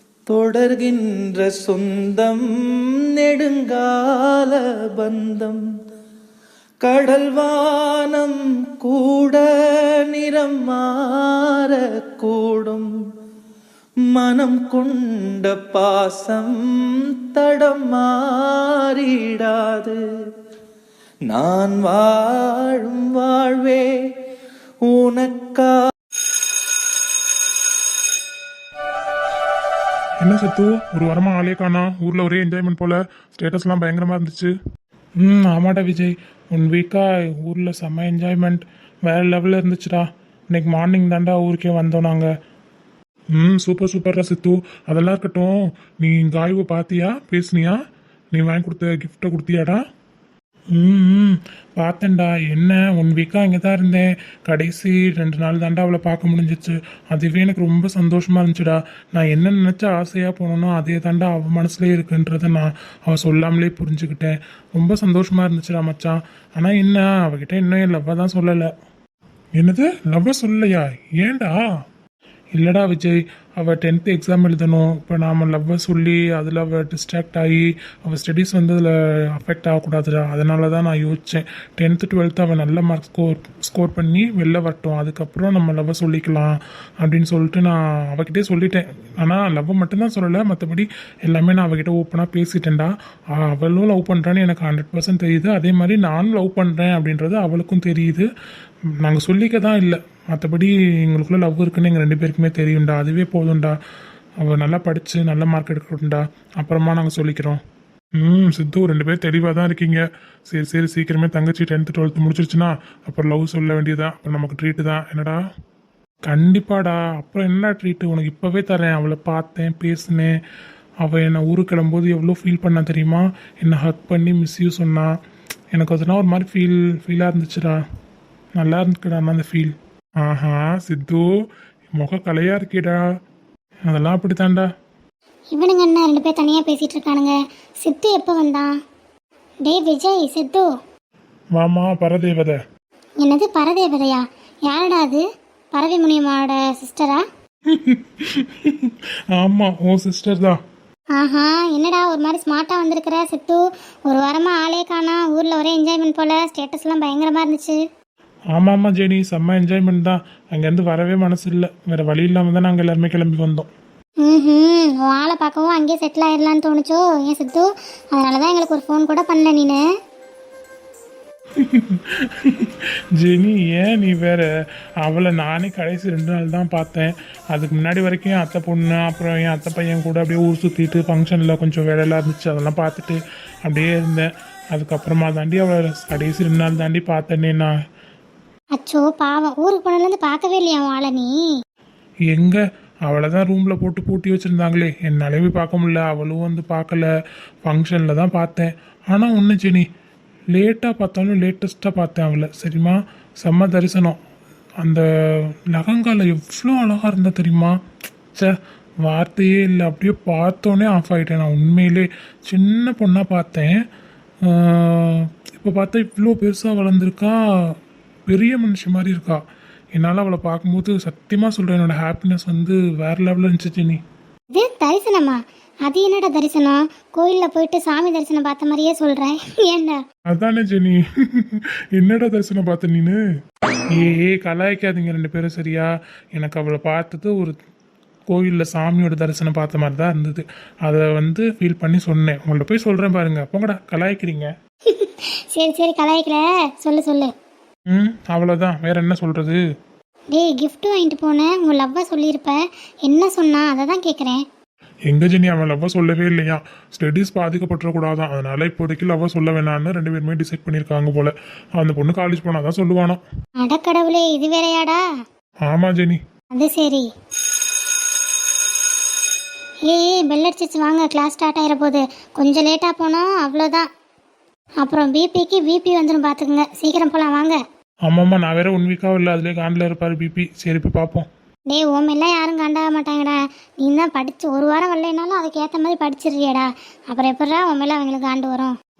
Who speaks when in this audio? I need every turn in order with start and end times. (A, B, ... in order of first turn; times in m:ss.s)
0:00.3-0:02.4 A
0:03.2-0:05.6 A
0:06.8-0:12.9 A
0:14.1-0:16.6 A
0:17.3-0:20.0 A
0:21.3-0:23.8 A
0:24.9-0:25.7 A
0:30.2-0:34.5 B
0:35.2-0:42.3 B
0:43.3-0:47.8 B
0:48.3-0:49.8 B
0:50.7-1:08.7 B
1:09.6-1:11.6 B
1:12.5-1:38.3 B
1:39.0-1:43.8 B
1:44.4-1:47.6 B
1:48.2-1:55.4 B
1:56.3-2:00.3 B
2:01.0-2:05.1 B
2:05.7-2:07.8 B
2:08.6-2:11.3 B
2:12.0-2:13.0 B
2:13.9-2:14.7 B
2:15.5-2:18.7 C
2:19.7-2:20.7 C
2:21.6-2:22.6 B
2:23.2-2:25.2 C
2:25.8-2:27.2 C
2:27.7-2:30.6 B
2:31.2-2:37.8 C
2:38.5-2:43.7 B
2:44.2-2:49.8 C
2:51.6-2:54.5 B
2:55.0-3:07.7 B
3:08.8-3:11.3 C
3:12.3-3:17.1 B
3:17.6-3:19.9 B
3:20.5-3:24.2 B
3:24.8-3:27.7 B
3:28.4-3:33.8 B
3:34.4-3:37.8 B
3:38.3-3:39.4 B
3:40.0-3:44.0 B
3:44.5-3:50.0 C
3:50.3-3:53.2 B
3:53.9-3:57.6 B
3:58.3-4:04.5 B
4:04.9-4:07.3 C
4:07.9-4:09.6 B
4:10.3-4:14.4 C
4:15.1-4:23.2 B
4:23.6-4:25.0 C
4:25.7-4:26.2 B
4:26.5-4:27.1 C
4:29.9-4:33.9 C
4:34.8-4:37.6 C
4:38.1-4:41.3 B
4:41.7-4:48.8 C